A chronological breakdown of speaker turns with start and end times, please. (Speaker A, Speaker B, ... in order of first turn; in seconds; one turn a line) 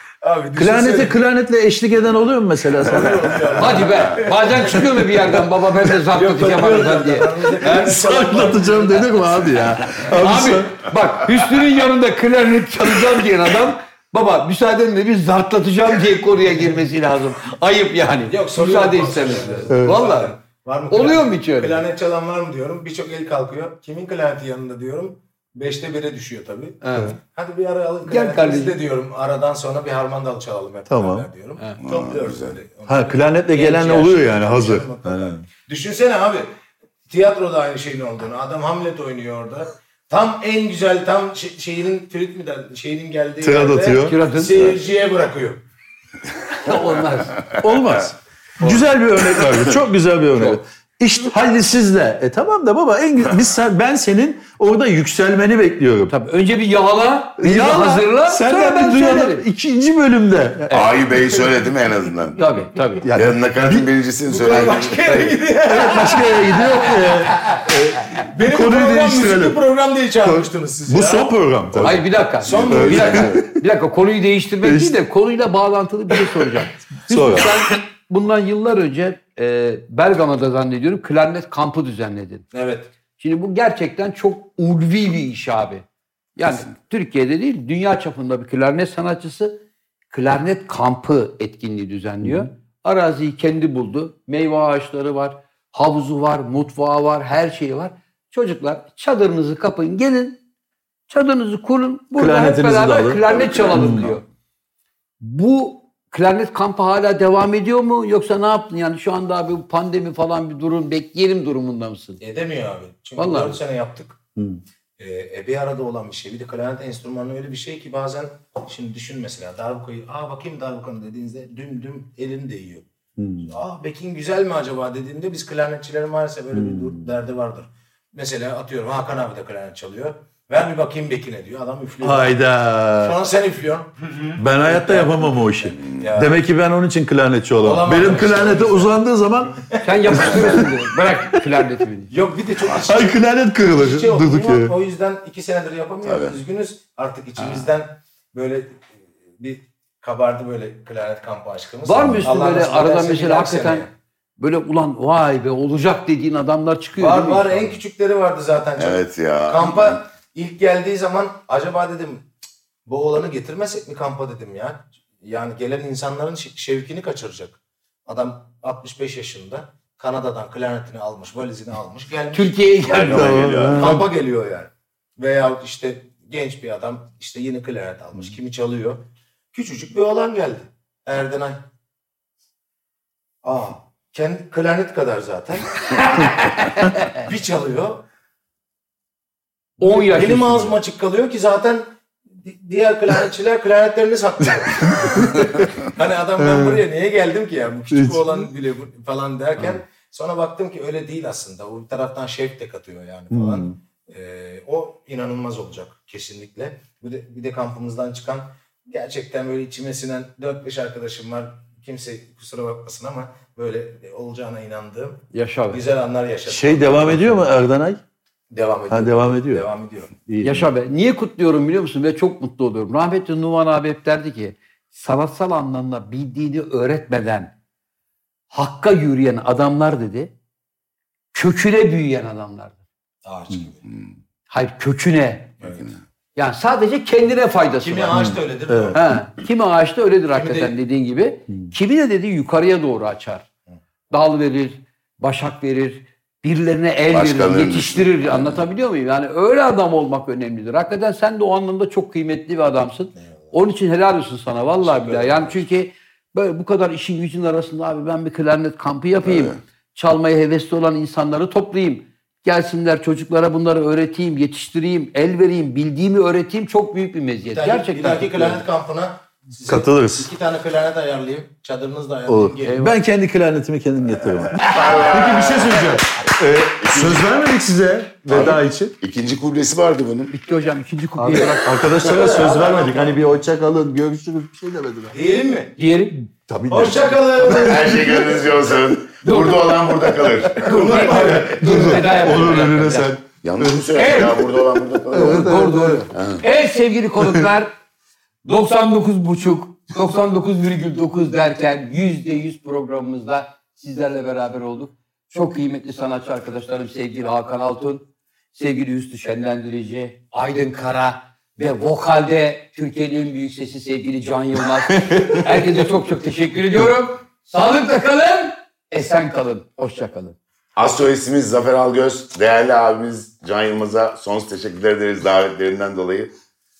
Speaker A: 0.2-1.2
Speaker B: 0.5-3.8
Speaker A: 2.8-5.0
Speaker C: 3.6-8.0
Speaker D: 3.9-4.2
Speaker B: 4.5-5.4
Speaker A: 6.1-9.3
Speaker B: 7.6-10.8
Speaker C: 9.9-20.4
Speaker A: 18.3-36.5
Speaker C: 20.9-21.8
Speaker C: 26.8-27.2
Speaker C: 28.1-28.8
Speaker B: 30.9-31.3
Speaker D: 31.8-32.6
Speaker B: 32.9-35.4
Speaker A: 37.1-45.6
Speaker B: 43.4-44.1
Speaker C: 44.0-44.7
Speaker C: 46.5-47.4
Speaker B: 47.5-56.1
Speaker C: 56.1-59.4
Speaker B: 57.4-60.9
Speaker D: 60.7-62.5
Speaker C: 62.3-63.0
Speaker B: 63.0-63.9
Speaker D: 63.1-65.3
Speaker A: 64.3-67.5
Speaker B: 65.6-69.6
Speaker C: 67.3-67.6
Speaker A: 68.1-73.4
Speaker B: 70.2-72.1
Speaker C: 71.8-82.5
Speaker D: 72.4-73.2
Speaker B: 72.7-73.5
Speaker B: 74.6-74.9
Speaker B: 76.2-76.5
Speaker B: 77.1-77.6
Speaker A: 82.5-82.9
Speaker C: 83.2-100.4
Speaker C: 101.1-104.2
Speaker B: 102.2-104.1
Speaker D: 103.3-104.2
Speaker C: 105.2-112.2
Speaker A: 112.2-114.2
Speaker C: 113.2-113.6
Speaker B: 114.3-114.6
Speaker A: 115.0-122.8
Speaker B: 123.2-123.5
Speaker A: 123.4-132.4
Speaker B: 126.5-127.1
Speaker B: 132.0-133.2
Speaker A: 132.9-136.4
Speaker B: 134.3-140.8
Speaker D: 135.8-136.1
Speaker A: 137.6-138.9
Speaker A: 139.6-140.6
Speaker C: 139.8-142.1
Speaker A: 142.1-153.9
Speaker B: 142.8-144.7
Speaker D: 146.0-146.3
Speaker C: 147.4-147.7
Speaker C: 151.8-153.9
Speaker C: 154.4-157.8
Speaker A: 156.9-162.2
Speaker D: 158.8-160.0
Speaker A: 162.8-172.9
Speaker C: 172.3-173.5
Speaker D: 172.8-174.0
Speaker B: 172.9-174.1
Speaker A: 173.7-181.7
Speaker A: 183.4-188.0
Speaker C: 186.4-187.2
Speaker C: 189.8-190.7
Speaker A: 189.8-217.5
Speaker B: 195.0-195.6
Speaker B: 196.4-196.8
Speaker B: 197.9-198.3
Speaker B: 203.3-203.7
Speaker C: 215.3-215.8
Speaker B: 216.5-218.0
Speaker A: 218.5-220.1
Speaker B: 218.9-219.7
Speaker B: 220.3-220.7
Speaker C: 220.4-227.5
Speaker C: 228.5-230.3
Speaker C: 231.3-232.8
Speaker A: 233.2-233.8
Speaker D: 233.8-234.1
Speaker C: 234.5-235.6
Speaker D: 235.6-236.0
Speaker C: 236.3-238.2
Speaker A: 237.8-239.0
Speaker B: 238.1-239.0
Speaker C: 238.9-243.5
Speaker A: 240.3-240.8
Speaker C: 244.1-268.6
Speaker D: 247.1-248.7
Speaker A: 254.8-255.6
Speaker D: 259.2-259.6
Speaker A: 267.5-272.8
Speaker B: 269.7-270.3
Speaker B: 272.3-278.9
Speaker C: 272.6-273.0
Speaker D: 274.5-276.0
Speaker A: 274.6-276.0
Speaker D: 276.8-277.3
Speaker D: 278.3-280.3
Speaker C: 280.3-282.2
Speaker B: 281.2-285.1
Speaker A: 282.0-283.2
Speaker A: 285.1-285.8
Speaker C: 285.8-286.3
Speaker B: 286.5-288.1
Speaker A: 286.7-288.3
Speaker D: 287.4-291.9
Speaker C: 289.2-289.9
Speaker C: 290.5-293.1
Speaker B: 290.7-294.6
Speaker A: 290.8-291.3
Speaker A: 291.9-292.6
Speaker D: 293.4-296.5
Speaker C: 293.9-294.4
Speaker B: 295.1-296.1
Speaker C: 295.1-297.7
Speaker C: 298.4-320.4
Speaker B: 315.1-315.4
Speaker D: 320.8-326.3